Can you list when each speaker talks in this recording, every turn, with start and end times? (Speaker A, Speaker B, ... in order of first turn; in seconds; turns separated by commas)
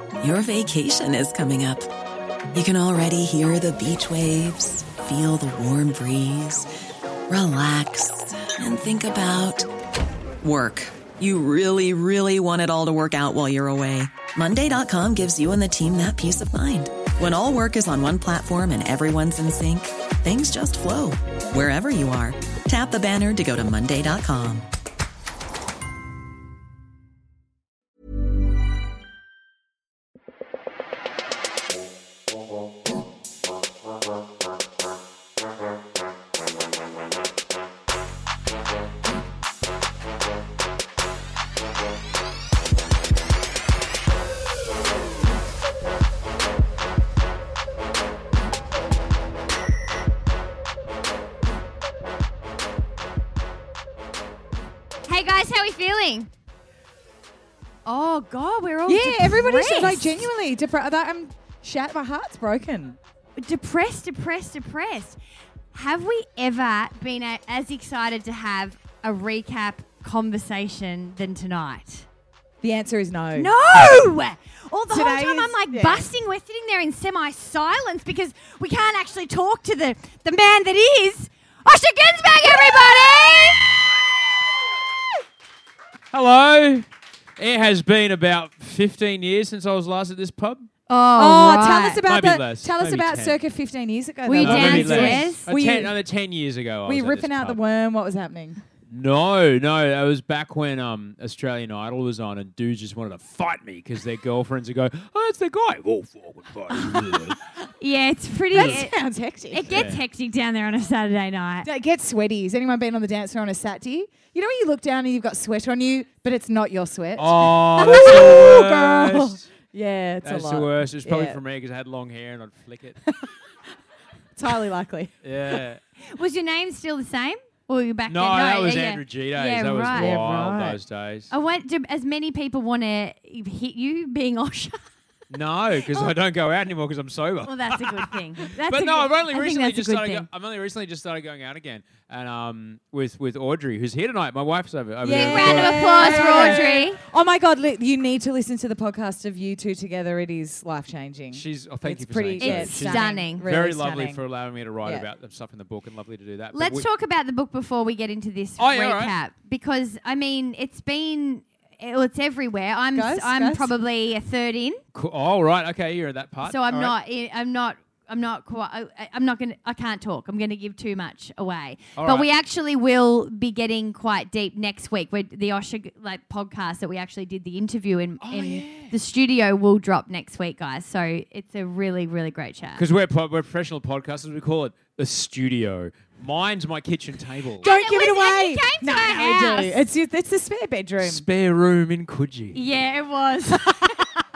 Speaker A: 0.2-1.8, Speaker A: 2.5-6.6, Speaker A: 7.3-9.6, Speaker A: 10.4-24.6, Speaker B: 55.1-56.1, Speaker A: 55.2-56.3, Speaker B: 57.9-58.9, Speaker A: 58.2-58.9, Speaker C: 58.9-63.0, Speaker A: 59.5-59.9, Speaker B: 63.4-65.2, Speaker B: 65.7-72.0, Speaker A: 71.0-71.3, Speaker C: 72.6-73.5, Speaker A: 73.6-76.2, Speaker C: 74.9-76.1, Speaker B: 75.5-82.4, Speaker A: 77.6-78.5, Speaker A: 82.3-83.6, Speaker D: 86.1-86.8, Speaker D: 87.4-90.7, Speaker C: 90.9-95.9, Speaker B: 91.2-91.7, Speaker D: 92.0-93.4, Speaker D: 94.3-97.6, Speaker A: 94.4-95.4, Speaker C: 96.8-98.6, Speaker D: 98.9-107.4, Speaker B: 107.8-108.8, Speaker D: 108.5-108.8, Speaker C: 108.5-109.9, Speaker B: 109.6-111.6, Speaker D: 109.7-110.0, Speaker A: 109.7-110.1, Speaker C: 111.6-121.4, Speaker D: 117.2-119.5, Speaker D: 120.2-123.0, Speaker C: 123.0-123.3, Speaker C: 124.3-125.6, Speaker D: 125.2-125.8, Speaker B: 126.2-128.9, Speaker D: 128.1-131.3, Speaker A: 129.3-130.1, Speaker C: 129.7-130.8, Speaker B: 131.4-134.7, Speaker D: 135.3-146.7, Speaker A: 137.5-140.2, Speaker C: 145.0-154.2, Speaker A: 145.1-147.0, Speaker B: 146.2-146.5, Speaker D: 151.3-156.9, Speaker A: 152.6-153.2, Speaker A: 156.5-156.8, Speaker B: 156.8-158.7, Speaker D: 158.6-159.2, Speaker A: 158.8-159.3, Speaker B: 159.3-164.8, Speaker C: 162.9-163.7, Speaker D: 164.9-166.9, Speaker A: 166.5-167.3, Speaker B: 167.1-178.4, Speaker A: 169.3-169.6, Speaker A: 170.4-170.8, Speaker A: 171.8-172.2, Speaker D: 171.9-172.3, Speaker A: 175.8-176.5, Speaker A: 177.2-179.2, Speaker D: 178.2-178.9, Speaker B: 178.9-182.8, Speaker A: 179.8-180.8, Speaker D: 182.8-187.7, Speaker C: 187.6-191.2, Speaker A: 187.6-189.3, Speaker D: 191.0-192.6, Speaker A: 192.5-194.0